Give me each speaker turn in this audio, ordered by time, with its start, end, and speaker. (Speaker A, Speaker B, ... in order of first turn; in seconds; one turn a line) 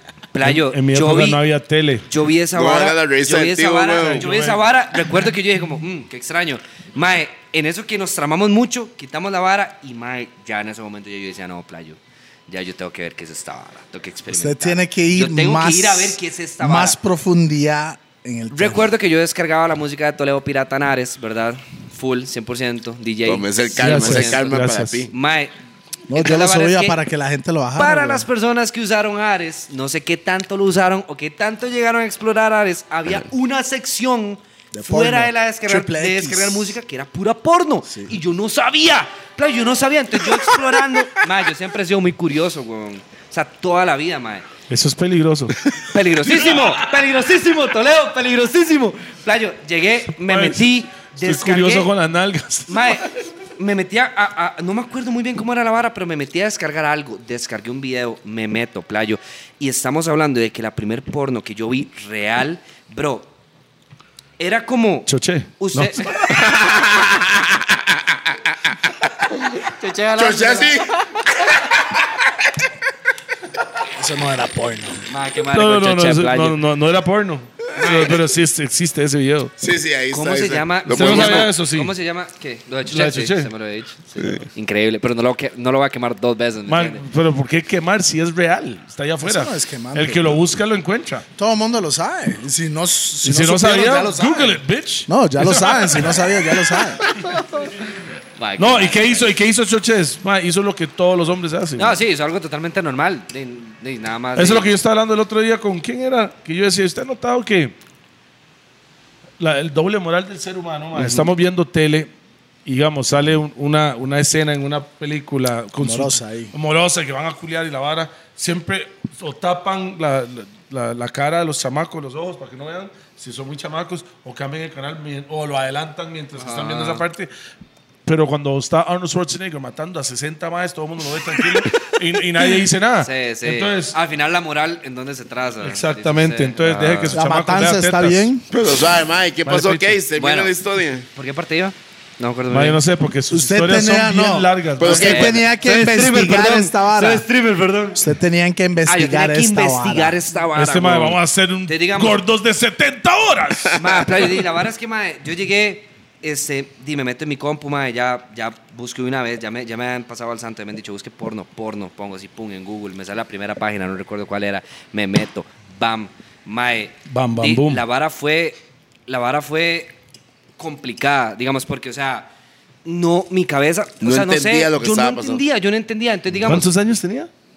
Speaker A: 0.3-1.4
Speaker B: 0.4-2.0
Speaker A: 2.1-17.0
Speaker C: 2.5-4.3
Speaker B: 4.0-4.6
Speaker D: 14.3-18.9
Speaker A: 18.5-24.5
Speaker C: 23.2-25.1
Speaker B: 23.8-25.0
Speaker A: 25.1-25.5
Speaker D: 26.1-28.2
Speaker A: 26.1-27.0
Speaker A: 27.8-44.5
Speaker D: 34.7-36.8
Speaker D: 37.9-38.1
Speaker B: 44.7-45.6
Speaker A: 45.9-51.9
Speaker B: 46.2-46.8
Speaker B: 50.2-53.0
Speaker A: 52.7-63.3
Speaker A: 64.4-66.1
Speaker B: 65.1-66.2
Speaker C: 66.3-69.1
Speaker A: 69.6-70.8
Speaker C: 70.2-72.0
Speaker D: 73.9-75.0
Speaker A: 75.1-76.6
Speaker B: 75.5-79.5
Speaker A: 77.7-78.2
Speaker C: 79.6-81.5
Speaker A: 80.1-87.0
Speaker B: 80.9-81.9
Speaker B: 82.9-83.5
Speaker B: 86.7-91.2
Speaker D: 89.2-90.4
Speaker D: 91.4-97.0
Speaker B: 93.2-96.3
Speaker A: 97.2-97.7
Speaker A: 98.4-99.3
Speaker B: 98.6-102.0
Speaker A: 101.8-104.7
Speaker B: 104.3-107.7
Speaker B: 109.4-112.1
Speaker D: 110.9-111.3
Speaker B: 112.7-127.3
Speaker D: 115.8-116.5
Speaker A: 126.3-127.0
Speaker B: 128.1-133.9
Speaker A: 133.0-137.2
Speaker B: 135.6-138.3
Speaker D: 137.1-138.4
Speaker C: 138.5-141.1
Speaker B: 139.4-140.0
Speaker A: 140.2-140.5
Speaker A: 141.1-142.8
Speaker B: 142.5-145.3
Speaker D: 143.3-147.2
Speaker C: 144.8-145.4
Speaker A: 144.9-148.0
Speaker D: 147.9-150.2
Speaker A: 148.8-152.2
Speaker B: 150.5-153.8
Speaker C: 153.7-154.0
Speaker A: 153.8-169.9
Speaker B: 167.1-167.8
Speaker A: 170.6-172.3
Speaker A: 172.8-176.7
Speaker C: 174.0-175.4
Speaker B: 176.4-177.3